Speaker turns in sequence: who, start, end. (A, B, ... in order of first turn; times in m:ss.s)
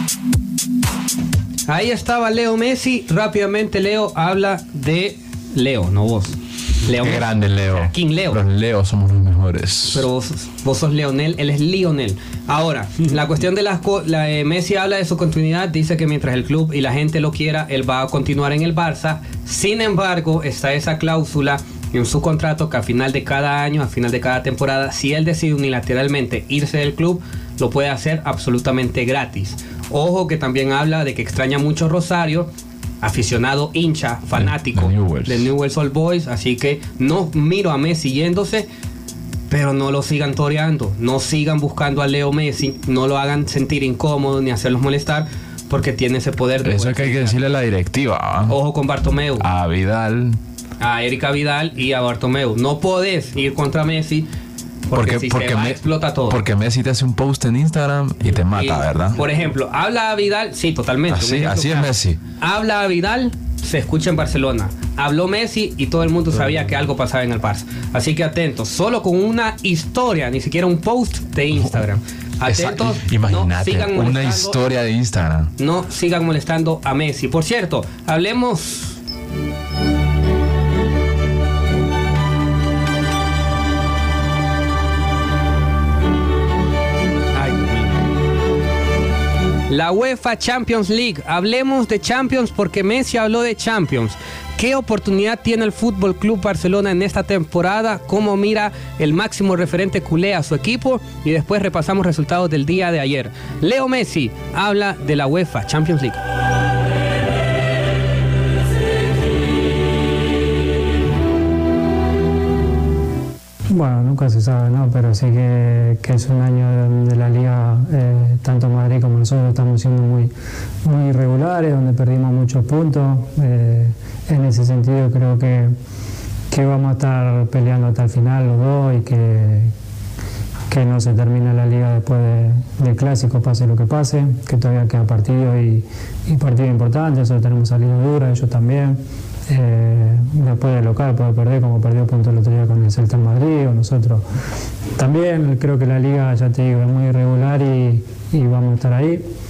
0:01.7-0:08.4 A
0:07.0-0:10.1 B
0:09.9-0:32.5 A
0:33.0-0:38.7 A
0:34.3-0:35.5 B
0:39.5-0:47.4 A
0:46.6-0:48.6 B
0:48.5-0:49.5 A
0:49.4-0:50.4 B
0:50.8-0:54.3 A
0:54.9-0:56.4 A
0:54.9-0:59.3 B
0:58.5-1:14.6 A
1:01.1-1:02.2 B
1:11.5-1:11.9 B
1:12.4-1:15.5 B
1:15.6-1:19.0 A
1:27.4-1:28.0 A
1:29.7-1:46.2 A
1:53.7-2:00.3 C
2:00.8-2:05.8 C
2:06.5-2:09.7 C
2:10.7-2:24.2 C
2:25.0-2:29.2 C